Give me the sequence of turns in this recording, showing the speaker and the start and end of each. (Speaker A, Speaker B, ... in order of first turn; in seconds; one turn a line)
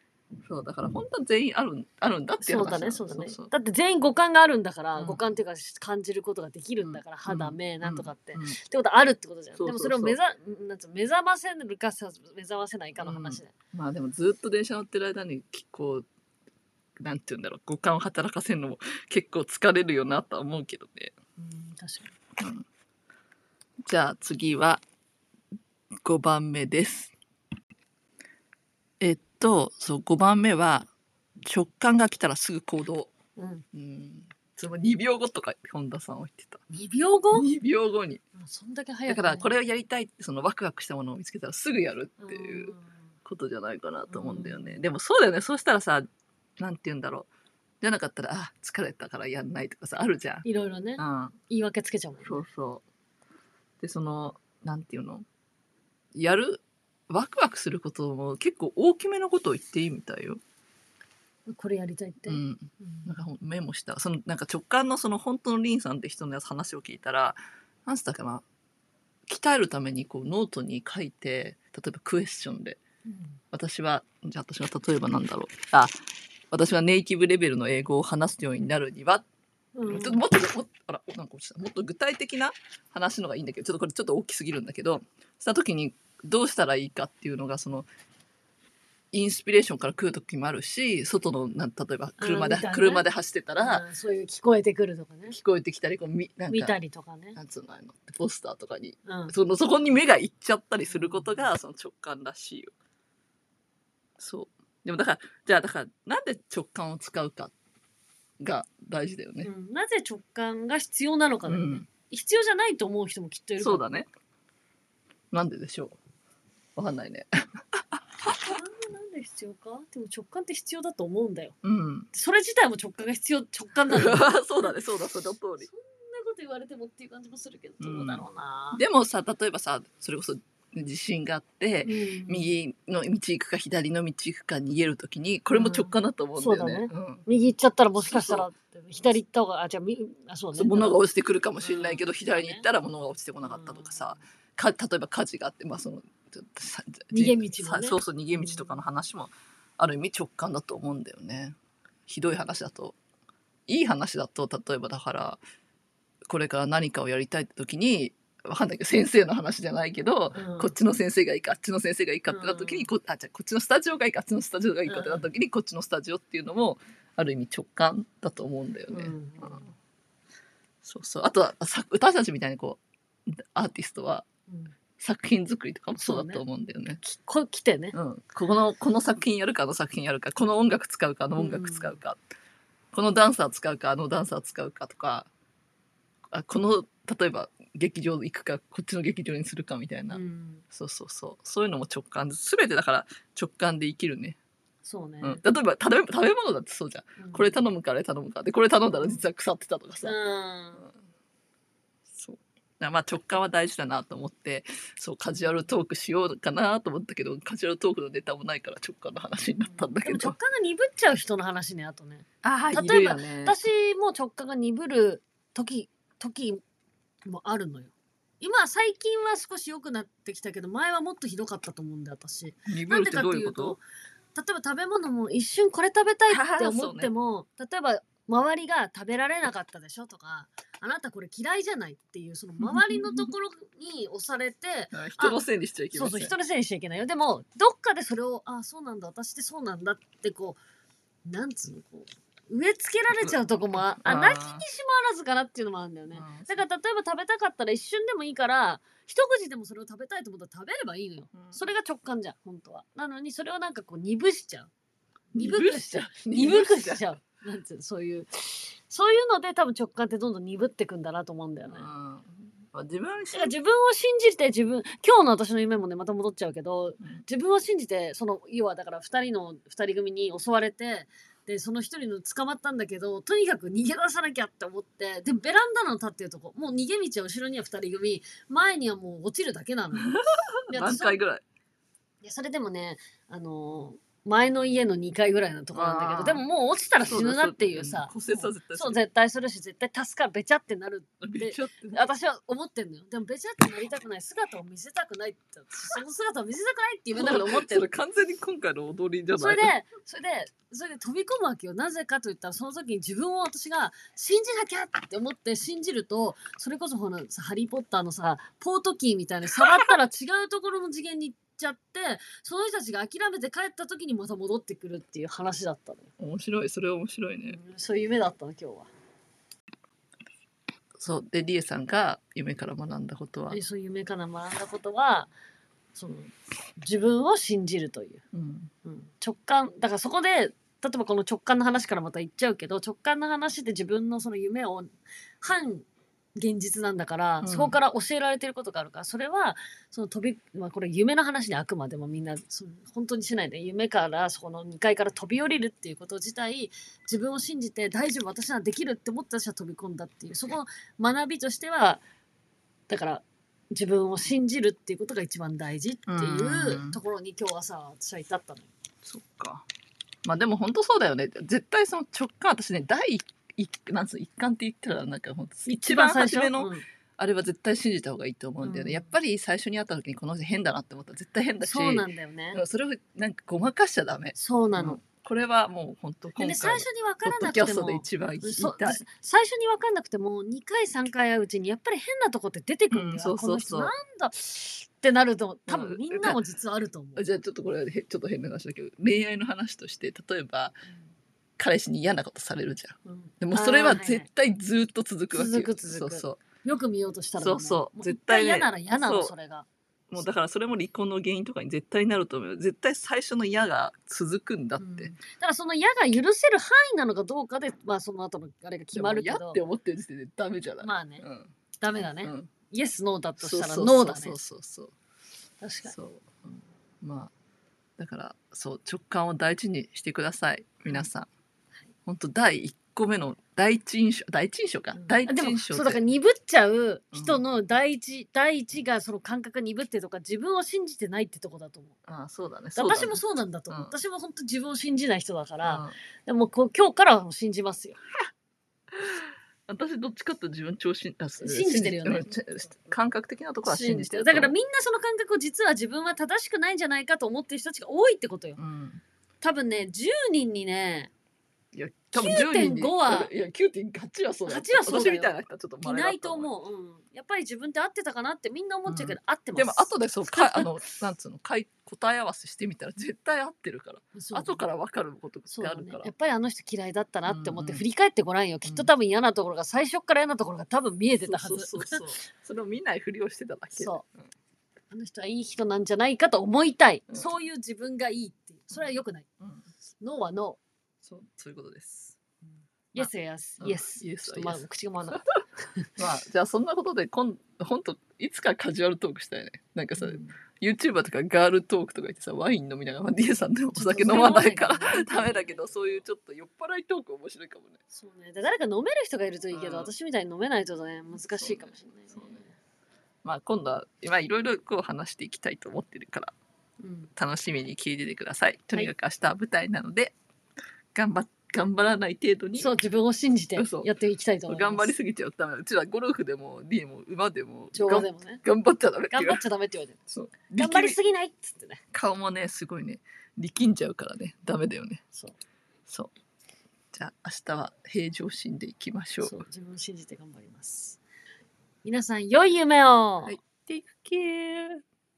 Speaker A: 0.4-3.5
Speaker B: 2.4-13.5
Speaker A: 5.0-5.3
Speaker A: 6.8-8.6
Speaker A: 9.6-10.2
Speaker A: 13.0-16.0
Speaker A: 17.0-21.1
Speaker B: 21.4-22.1
Speaker A: 22.4-22.6
Speaker A: 23.9-24.8
Speaker A: 26.0-27.1
Speaker A: 29.0-30.9
Speaker A: 31.4-33.1
Speaker B: 33.4-33.6
Speaker A: 33.7-36.6
Speaker B: 36.7-37.5
Speaker A: 37.3-38.2
Speaker B: 38.4-39.6
Speaker A: 39.1-42.7
Speaker B: 42.2-43.0
Speaker A: 43.2-46.1
Speaker B: 44.1-44.8
Speaker A: 46.6-47.3
Speaker A: 47.8-50.4
Speaker B: 50.4-52.4
Speaker A: 51.0-51.4
Speaker A: 52.2-52.8
Speaker A: 53.8-55.2
Speaker A: 56.1-60.4
Speaker B: 61.5-63.2
Speaker A: 62.3-68.4
Speaker A: 69.3-72.8
Speaker B: 73.0-73.4
Speaker A: 73.5-75.9
Speaker A: 76.5-79.2
Speaker B: 79.7-80.2
Speaker A: 79.9-87.9
Speaker A: 89.1-93.8
Speaker B: 92.2-93.0
Speaker B: 93.6-95.4
Speaker A: 95.3-96.7
Speaker B: 96.5-97.4
Speaker A: 97.3-102.7
Speaker B: 99.0-99.3
Speaker B: 100.9-101.5
Speaker A: 104.2-107.5
Speaker A: 108.4-109.5
Speaker B: 109.4-113.8
Speaker A: 111.5-111.9
Speaker A: 113.6-114.1
Speaker A: 115.3-116.0
Speaker A: 116.8-118.0
Speaker B: 118.3-121.5
Speaker A: 121.6-122.1
Speaker B: 122.1-124.7
Speaker A: 123.9-125.7
Speaker B: 125.6-128.8
Speaker A: 127.8-137.2
Speaker B: 131.8-132.5
Speaker B: 135.5-141.0
Speaker A: 138.0-138.4
Speaker A: 140.5-151.6
Speaker B: 141.6-142.6
Speaker B: 143.4-144.2
Speaker B: 147.1-148.8
Speaker A: 152.1-153.0
Speaker A: 153.7-155.4
Speaker A: 156.3-169.7
Speaker B: 160.3-160.7
Speaker B: 162.3-162.9
Speaker B: 164.9-165.2
Speaker B: 168.9-169.7
Speaker A: 170.8-174.2
Speaker B: 174.5-174.7
Speaker A: 175.0-177.0
Speaker B: 176.0-176.4
Speaker B: 177.0-177.9
Speaker A: 177.9-182.2
Speaker B: 181.3-182.0
Speaker A: 182.9-185.3
Speaker A: 186.3-190.2
Speaker B: 190.1-190.6
Speaker A: 190.7-194.4
Speaker B: 194.8-195.4
Speaker A: 195.2-200.2
Speaker B: 197.2-197.5
Speaker B: 198.9-199.2
Speaker B: 200.0-200.9
Speaker A: 202.1-210.3
Speaker B: 209.6-216.6
Speaker A: 212.4-213.6
Speaker B: 217.2-223.8
Speaker A: 222.7-223.8
Speaker B: 224.3-240.6
Speaker A: 226.3-227.1
Speaker A: 232.6-233.3
Speaker A: 234.9-236.3
Speaker B: 241.2-254.7
Speaker A: 244.0-244.6
Speaker A: 246.1-246.6
Speaker A: 251.3-251.6
Speaker A: 255.3-257.0
Speaker B: 255.3-261.9
Speaker A: 261.7-263.5
Speaker B: 263.3-280.1
Speaker A: 280.0-281.4
Speaker B: 280.7-281.2
Speaker B: 282.2-297.9
Speaker A: 285.7-286.4
Speaker A: 287.0-289.0
Speaker A: 291.2-292.0
Speaker A: 297.1-299.7
Speaker B: 299.3-316.1
Speaker A: 316.2-317.6
Speaker B: 317.5-318.9
Speaker A: 321.0-323.6
Speaker B: 323.5-325.3
Speaker B: 325.9-328.2
Speaker A: 328.3-328.7
Speaker B: 328.8-352.0
Speaker A: 337.4-337.8
Speaker B: 352.9-358.7
Speaker A: 356.1-357.0
Speaker A: 359.0-359.6
Speaker A: 360.2-379.0
Speaker B: 365.7-366.8
Speaker B: 368.6-369.1
Speaker B: 371.6-372.6
Speaker B: 374.3-375.0
Speaker B: 376.4-387.2
Speaker A: 382.9-383.9
Speaker A: 385.7-386.4
Speaker A: 387.1-390.8
Speaker A: 391.6-396.4
Speaker B: 393.1-394.3
Speaker B: 395.3-399.7
Speaker A: 397.4-399.3
Speaker A: 400.1-405.1
Speaker B: 404.8-409.6
Speaker A: 408.9-411.5
Speaker B: 410.8-411.2
Speaker B: 411.8-414.4
Speaker A: 412.2-412.5
Speaker A: 413.4-414.9
Speaker B: 415.6-415.9
Speaker A: 415.9-416.5
Speaker A: 417.0-417.3
Speaker A: 418.0-421.3
Speaker A: 422.1-426.0
Speaker B: 425.0-431.9
Speaker A: 427.1-427.4
Speaker A: 432.1-433.9
Speaker B: 432.7-438.0
Speaker A: 435.6-435.9
Speaker A: 438.9-444.5
Speaker B: 441.4-442.6
Speaker B: 443.6-448.6
Speaker A: 448.6-449.0
Speaker B: 449.4-451.1
Speaker A: 451.7-456.5
Speaker B: 452.1-453.3
Speaker B: 454.5-460.7
Speaker A: 458.9-466.1
Speaker B: 464.1-464.6
Speaker B: 465.5-472.0
Speaker A: 467.2-467.8
Speaker A: 468.6-468.9
Speaker A: 471.2-474.1
Speaker B: 473.7-474.0
Speaker B: 474.9-479.2
Speaker A: 478.7-479.6
Speaker B: 480.0-480.6
Speaker A: 481.0-482.2
Speaker B: 482.9-485.8
Speaker A: 483.6-485.2
Speaker A: 486.0-497.8
Speaker B: 490.0-490.3
Speaker B: 493.7-496.0
Speaker B: 497.9-502.5
Speaker A: 499.5-499.9
Speaker A: 501.3-502.4
Speaker A: 503.2-506.3
Speaker B: 506.8-507.1
Speaker A: 507.1-510.1
Speaker A: 510.9-512.7
Speaker B: 512.6-514.9
Speaker A: 513.5-513.9
Speaker A: 514.5-519.4
Speaker B: 517.7-518.4
Speaker B: 519.1-520.0
Speaker A: 520.1-521.0
Speaker B: 520.5-521.8
Speaker A: 521.9-525.0
Speaker A: 525.9-526.1
Speaker A: 526.9-529.4
Speaker B: 529.2-531.0
Speaker B: 531.8-533.4
Speaker A: 533.2-534.8